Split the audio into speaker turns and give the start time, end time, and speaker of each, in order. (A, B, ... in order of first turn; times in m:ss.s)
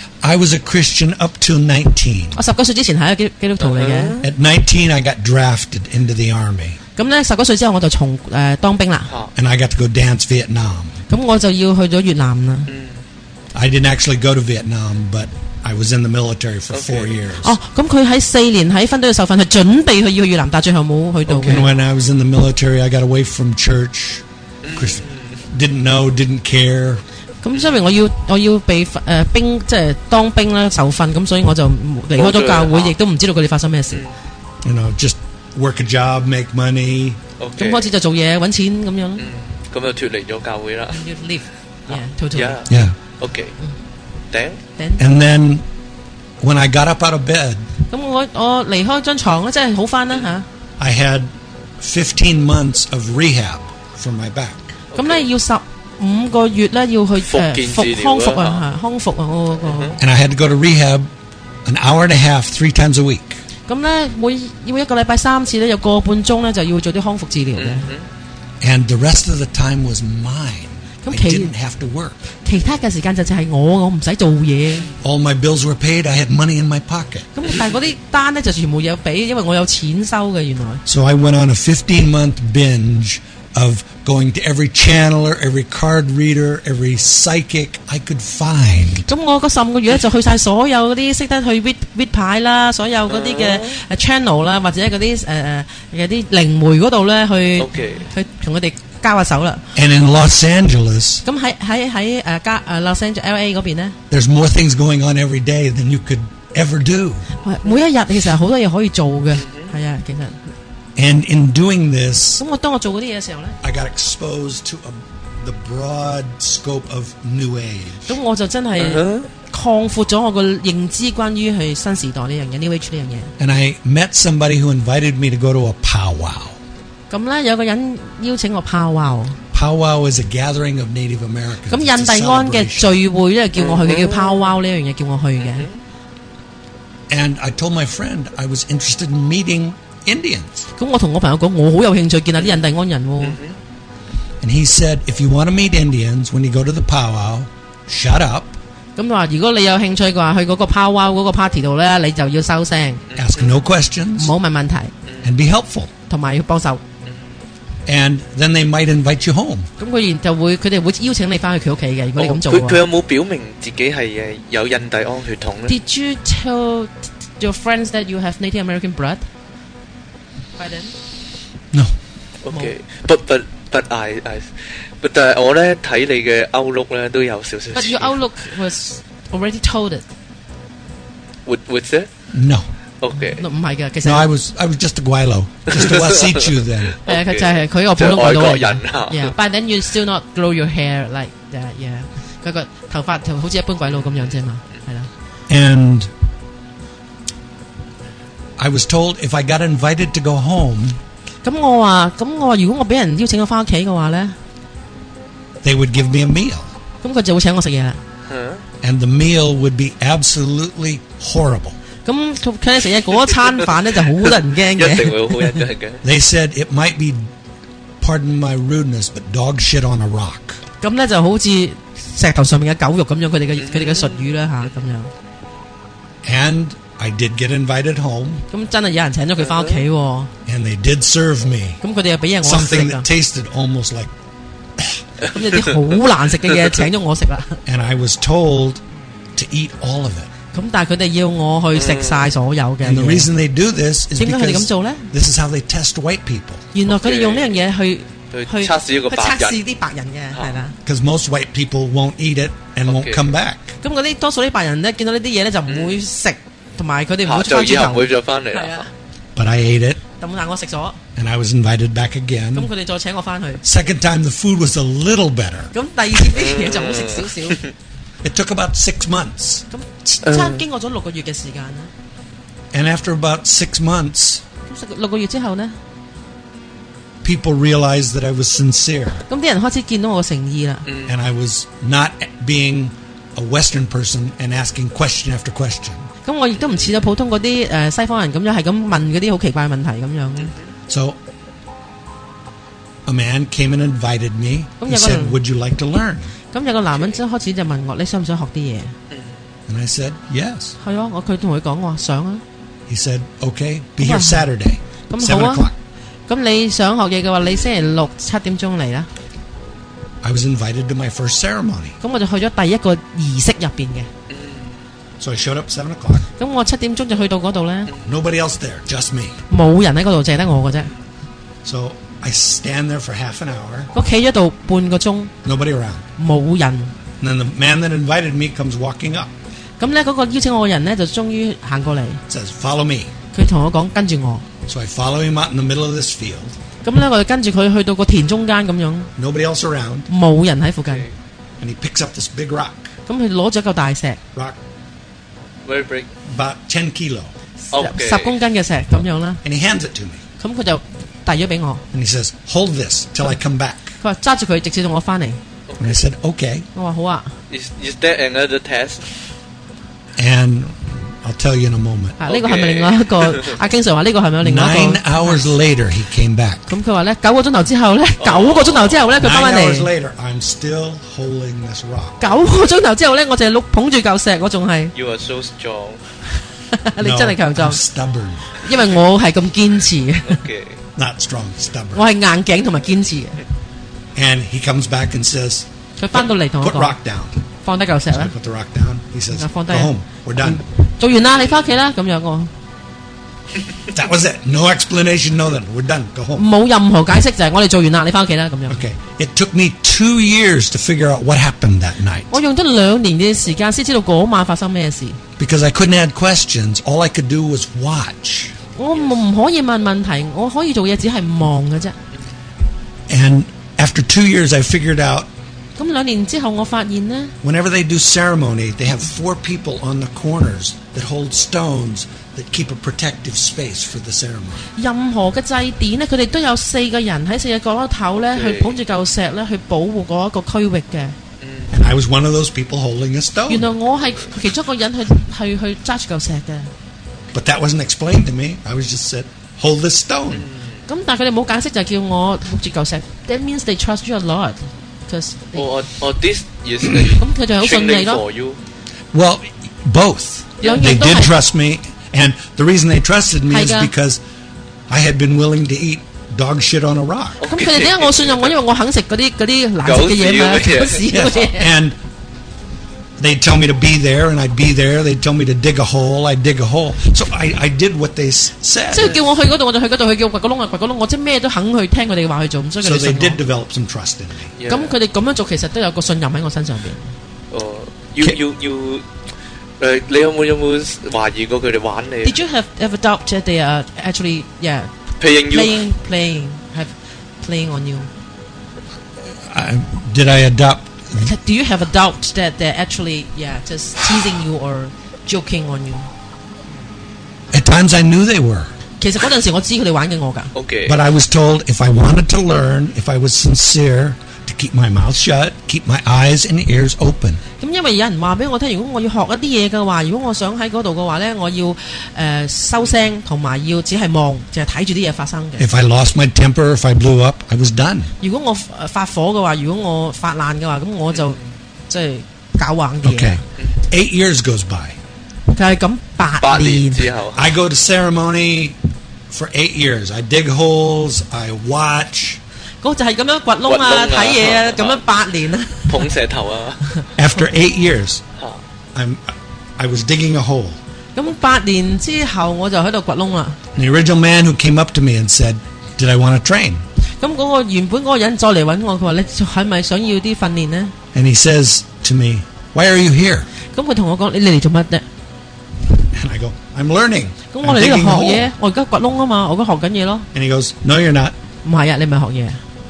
0:00.2-0:02.4 A
0:02.4-0:04.2 B
0:03.6-0:04.3 C
0:04.2-0:06.8 A
0:07.0-0:09.1 B
0:09.4-0:11.0 A
0:11.1-0:12.7 B
0:12.7-0:13.0 C
0:13.5-0:17.6 A
0:16.7-0:17.2 C
0:17.4-0:21.6 B
0:21.3-0:21.7 C
0:21.4-0:24.2 A
0:24.6-0:25.4 C
0:24.8-0:27.0 A
0:27.4-0:34.0 B
0:32.2-0:33.0 C
0:34.6-0:37.2 A
0:37.4-0:37.9 C
0:37.6-0:39.2 B
0:39.2-0:41.0 C
0:40.9-0:42.6 B
0:41.9-0:43.6 C
0:42.7-0:43.0 A
0:44.3-0:44.6 C
0:44.8-0:45.0 B
0:45.0-0:45.6 A
0:46.4-0:47.7 A
0:47.9-0:50.4 B
0:50.8-0:54.6 A
0:54.9-0:55.2 C
0:54.9-1:00.0 B
0:57.2-0:58.6 C
0:59.7-0:59.9 C
1:00.0-1:01.1 A
1:01.6-1:03.4 A
1:03.7-1:07.9 B
1:07.6-1:08.0 C
1:08.6-1:12.2 A
1:11.0-1:11.5 B
1:12.4-1:14.9 B
1:15.0-1:17.3 A
1:17.3-1:20.8 B
1:20.9-1:29.1 A
1:29.1-1:39.6 B
1:33.1-1:33.8 C
1:37.6-1:38.1 C
1:39.8-1:41.2 A
1:41.2-1:44.0 B
1:44.1-1:47.2 A
1:47.4-1:50.4 B
1:51.0-1:52.4 A
1:52.4-1:53.6 B
1:53.6-1:58.2 A
1:58.1-2:03.3 B
1:58.8-1:59.3 C
2:03.4-2:06.6 A
2:07.1-2:09.4 B
2:09.5-2:13.0 A
2:11.7-2:15.7 B
2:13.6-2:14.5 C
2:15.4-2:15.7 C
2:17.1-2:20.6 A
2:20.8-2:23.4 B
2:23.2-2:23.6 C
2:24.4-2:28.6 A
2:29.0-2:33.0 B
2:33.1-2:33.6 C
2:33.1-2:34.3 A
2:34.2-2:34.9 B
2:35.0-2:35.3 C
2:35.2-2:35.9 A
2:36.1-2:36.8 B
2:37.9-2:39.7 A
2:39.8-2:42.8 B
2:42.2-2:45.8 C
2:45.7-2:49.2 B
2:50.6-2:50.9 B
2:52.4-2:58.1 C
2:52.5-2:52.7 B
2:57.8-3:00.0 B
3:01.4-3:02.1 C
3:02.3-3:02.7 A
3:03.0-3:03.4 C
3:03.2-3:04.3 B
3:04.0-3:07.0 A
3:05.7-3:06.5 C
3:07.0-3:09.4 C
3:07.1-3:15.1 B
3:13.9-3:14.4 C
3:15.5-3:16.1 A
3:18.6-3:21.0 A
3:21.4-3:24.4 B
3:25.6-3:26.7 A
3:27.0-3:28.0 B
3:28.2-3:28.6 C
3:28.8-3:31.8 A
3:32.0-3:35.6 B
3:34.7-3:36.0 C
3:36.0-3:37.3 A
3:38.0-3:40.6 A
3:40.8-3:45.1 B
3:43.6-3:44.7 C
3:46.2-3:48.4 A
3:48.5-3:50.3 B
3:49.4-3:49.8 C
3:50.4-3:51.8 A
3:51.8-3:53.1 B
3:52.4-3:54.1 A
3:54.8-3:55.0 A
3:55.2-3:57.6 B
3:57.6-3:58.8 A
3:59.4-4:00.3 A
4:00.5-4:03.3 B
4:01.7-4:02.3 C
4:02.8-4:06.6 A
4:04.2-4:05.1 B
4:06.7-4:10.8 B
4:06.9-4:07.6 C
4:08.3-4:09.6 C
4:10.9-4:13.7 A
4:12.9-4:13.2 C
4:13.8-4:18.9 B
4:15.7-4:16.0 C
4:17.2-4:18.9 C
4:19.4-4:20.0 A
4:20.2-4:21.0 B
4:21.2-4:22.7 A
4:22.5-4:23.6 B
4:23.6-4:25.7 A
4:25.7-4:27.6 B
4:26.3-4:27.7 C
4:28.2-4:29.6 A
4:29.7-4:31.9 B
4:30.2-4:30.6 C
4:32.7-4:34.4 A
4:34.6-4:35.8 B
4:37.2-4:39.2 A
4:39.3-4:40.9 B
4:40.9-4:41.1 C
4:41.0-4:46.1 A
4:46.2-4:50.5 B
4:46.6-4:47.1 C
4:50.4-4:50.7 C
4:50.9-4:51.2 A
4:53.0-4:56.3 A
4:54.8-4:55.4 B
4:56.5-4:58.9 B
4:56.9-4:57.2 C
4:59.1-4:59.4 C
4:59.7-5:00.8 A
5:00.8-5:02.4 B
5:02.9-5:05.8 A
5:04.0-5:04.5 B
5:05.1-5:05.7 B
5:06.3-5:09.1 B
5:10.2-5:12.0 A
5:12.0-5:14.1 B
5:14.3-5:14.8 C
5:15.2-5:16.3 A
5:16.4-5:17.9 B
5:18.0-5:19.4 A
5:19.5-5:20.9 B
5:21.6-5:23.9 A
5:23.9-5:25.3 B
5:25.4-5:26.0 A
5:26.2-5:26.9 B
5:27.2-5:29.3 A
5:29.8-5:32.2 B
5:32.3-5:33.1 A
5:33.3-5:34.5 B
5:34.6-5:36.5 A
5:36.8-5:39.1 B
5:39.2-5:40.1 A
5:40.1-5:41.0 B
5:41.6-5:42.9 A
5:43.1-5:44.2 B
5:45.6-5:46.1 C
5:46.2-5:47.3 A
5:47.6-5:49.4 B
5:47.7-5:48.4 C
5:49.4-5:50.2 A
5:50.4-5:51.8 B
5:51.9-5:53.9 A
5:54.0-5:55.4 B
5:55.7-5:56.0 C
5:55.8-5:56.7 A
5:56.8-5:57.3 B
5:57.5-5:59.0 C
6:00.2-6:02.2 A
6:02.2-6:05.5 B
6:02.3-6:03.6 C
6:04.4-6:06.8 A
6:06.7-6:09.9 B
6:08.2-6:09.2 C
6:09.2-6:12.4 A
6:12.2-6:14.9 B
6:15.0-6:16.0 C
6:16.7-6:17.8 B
6:17.0-6:18.5 A
6:18.5-6:20.4 B
6:20.2-6:20.8 C
6:21.0-6:22.0 A
6:21.9-6:23.4 B
6:24.1-6:27.4 A
6:26.0-6:27.0 B
6:27.6-6:28.3 B
6:28.1-6:30.6 A
6:29.4-6:32.5 B
6:33.9-6:36.5 A
6:36.4-6:38.8 B
6:38.7-6:42.4 A
6:42.3-6:45.2 B
6:45.4-6:48.5 A
6:48.8-6:52.0 B
6:53.1-6:55.3 A
6:55.8-6:57.3 B
6:57.4-7:04.6 A
7:04.8-7:11.2 B
7:08.2-7:08.8 C
7:11.4-7:11.8 C
7:11.7-7:13.7 A
7:13.5-7:16.7 B
7:17.3-7:20.5 A
7:20.3-7:20.8 C
7:20.9-7:25.7 B
7:25.5-7:28.6 C
7:27.2-7:28.2 B
7:29.1-7:34.2 A
7:30.6-7:31.4 B
7:33.5-7:33.9 B
7:34.9-7:37.4 A
7:37.4-7:38.6 C
7:37.5-7:41.7 B
7:39.8-7:41.1 C
7:41.1-7:42.0 A
7:43.2-7:49.2 A
7:48.9-7:53.4 B
7:52.8-7:54.5 A
7:54.6-7:55.0 C
7:54.7-7:57.1 B
7:57.5-7:59.0 C
7:59.8-8:02.4 C
8:02.2-8:04.9 B
8:05.2-8:05.8 C
8:05.4-8:08.1 B
8:09.4-8:11.3 A
8:11.2-8:16.1 B
8:17.5-8:18.7 A
8:19.0-8:20.5 B
8:20.5-8:21.0 C
8:20.9-8:27.4 A
8:27.6-8:35.7 B
8:35.6-8:38.1 A
8:38.2-8:41.4 B
8:41.9-8:43.4 B
8:43.0-8:45.0 A
8:45.5-8:47.1 B
8:46.4-8:47.5 C
8:47.4-8:48.8 A
8:49.3-8:52.4 A
8:52.8-8:56.1 B
8:53.6-8:55.0 C
8:55.9-8:56.9 C
8:57.2-8:58.2 A
8:58.9-9:00.8 A
9:01.1-9:03.6 B
9:03.8-9:06.8 A
9:07.2-9:10.9 B
9:11.1-9:13.5 A
9:13.7-9:15.0 B
9:16.0-9:18.5 A
9:17.5-9:20.3 B
9:20.3-9:21.4 A
9:21.6-9:22.6 B